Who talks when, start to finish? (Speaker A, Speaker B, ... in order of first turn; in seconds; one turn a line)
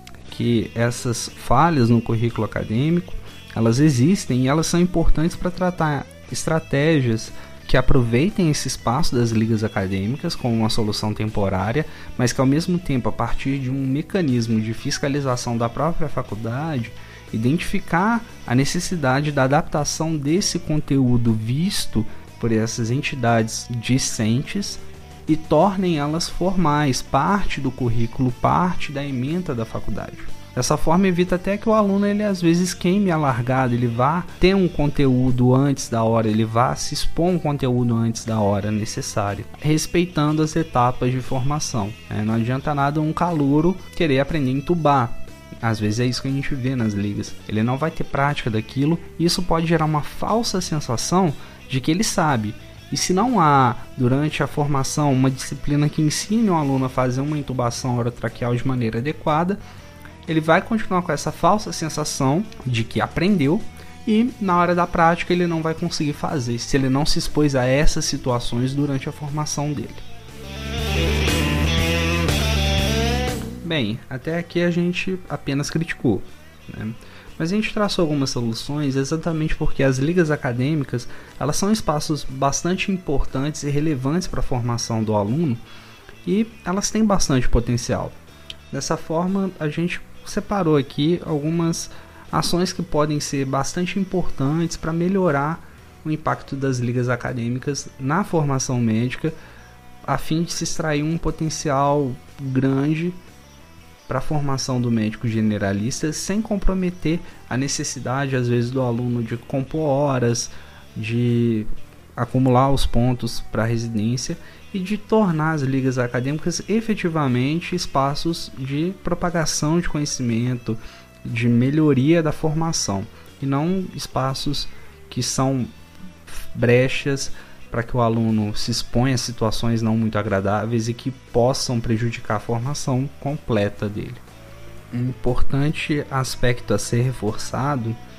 Speaker A: 0.2-59.6
Speaker A: 60.3-70.0
Speaker A: 73.6-85.6
Speaker A: 86.2-88.1
Speaker A: 88.7-99.3
Speaker A: 100.0-103.2
Speaker A: 104.1-125.7
Speaker A: 126.3-134.2
Speaker A: 134.9-138.0